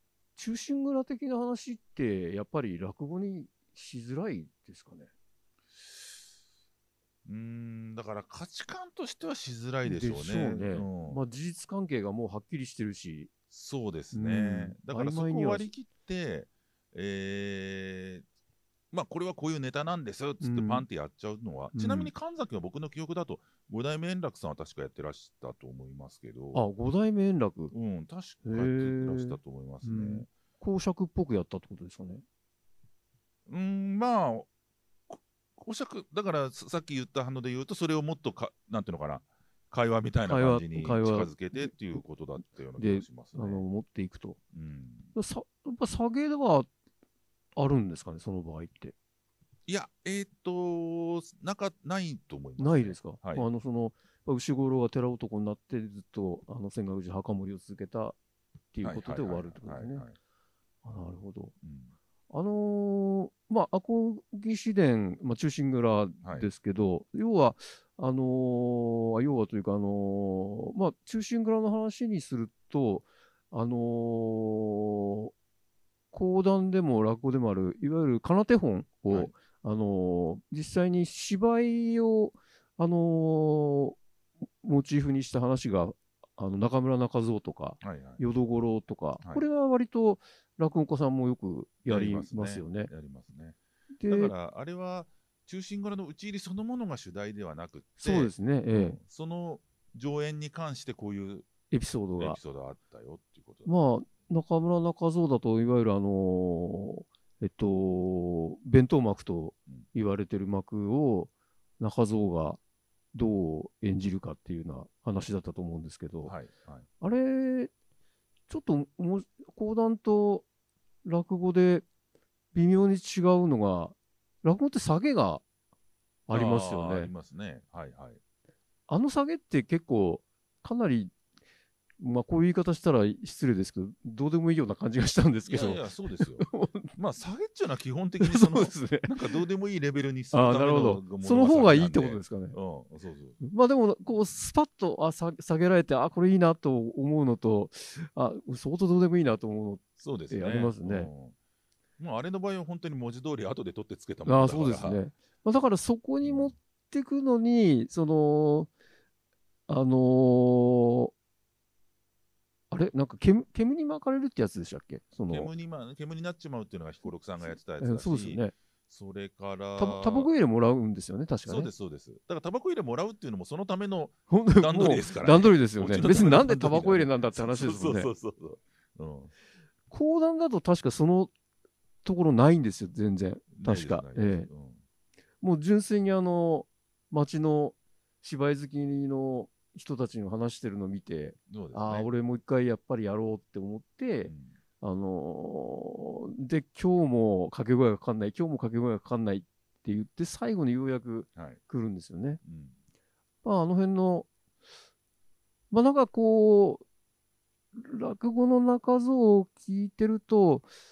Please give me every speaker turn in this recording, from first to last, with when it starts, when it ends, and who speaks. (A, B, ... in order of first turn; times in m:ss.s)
0:00.4-0:05.1 A
0:07.2-0:11.2 B
0:09.8-0:13.3 A
0:13.5-0:18.2 B
0:14.1-0:15.7 A
0:18.9-0:26.6 B
0:20.4-0:20.9 A
0:21.7-0:22.1 A
0:26.5-0:27.7 A
0:27.7-0:30.3 B
0:28.4-0:32.2 A
0:33.5-0:34.5 B
0:35.1-0:43.6 B
0:40.3-0:42.0 A
0:42.8-0:44.4 A
0:44.5-0:45.1 B
0:45.1-0:46.7 A
0:47.6-0:48.9 A
0:49.7-0:53.5 B
0:52.6-0:58.2 A
0:58.7-1:00.0 A
0:58.8-1:00.2 B
1:00.8-1:01.6 A
1:01.6-1:01.9 B
1:02.3-1:15.3 A
1:16.1-1:24.0 A
1:24.6-1:32.9 A
1:27.8-1:28.2 B
1:29.2-1:29.5 B
1:31.9-1:41.5 B
1:34.0-1:34.3 A
1:38.0-1:39.0 A
1:41.7-1:42.4 A
1:42.2-1:43.7 B
1:43.6-1:52.6 A
1:53.1-1:56.4 A
1:56.2-1:56.9 B
1:57.0-1:57.7 A
1:58.5-2:00.5 A
2:01.0-2:01.8 A
2:02.5-2:05.4 A
2:06.3-2:07.1 A
2:06.3-2:08.2 B
2:08.9-2:11.1 A
2:12.0-2:16.9 A
2:15.5-2:23.4 B
2:18.2-2:19.4 A
2:20.3-2:22.6 A
2:23.4-2:31.1 A
2:30.0-2:31.4 B
2:32.0-2:35.0 B
2:34.2-2:38.7 A
2:36.2-2:36.5 B
2:39.7-2:41.1 A
2:42.7-2:45.5 A
2:45.3-2:50.3 B
2:47.5-2:48.5 A
2:49.8-2:51.7 A
2:51.5-2:59.3 B
2:54.3-2:58.1 A
2:59.9-3:01.3 A
3:02.0-3:04.5 A
3:03.5-3:04.8 B
3:05.4-3:22.4 A
3:11.5-3:12.1 B
3:14.3-3:14.5 B
3:22.4-3:22.7 B
3:23.4-3:24.3 A
3:25.7-3:26.8 A
3:27.7-3:30.7 A